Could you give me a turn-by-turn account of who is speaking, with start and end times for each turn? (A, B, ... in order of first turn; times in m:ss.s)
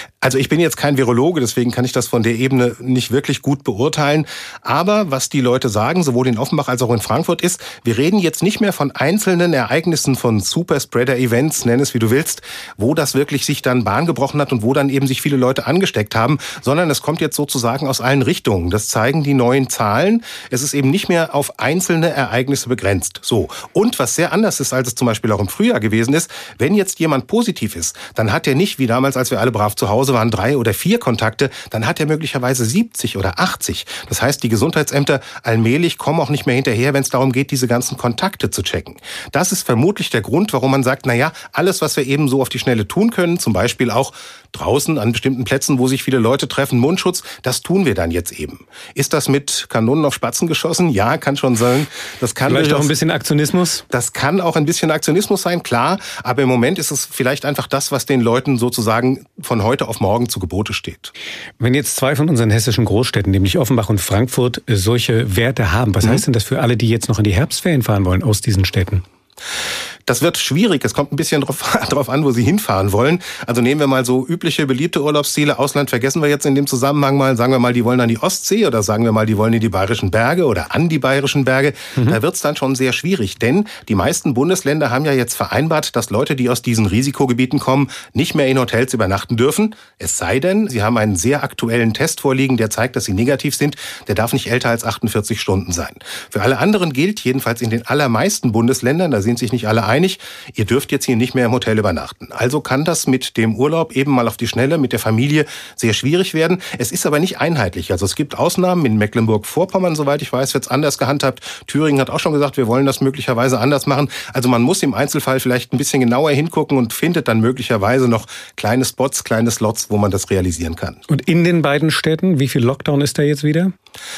0:00.2-0:52.9 A
0:52.4-0:53.8 B
0:53.9-1:01.1 A
1:01.6-1:09.0 B
1:10.1-2:01.0 A
2:01.1-2:03.7 B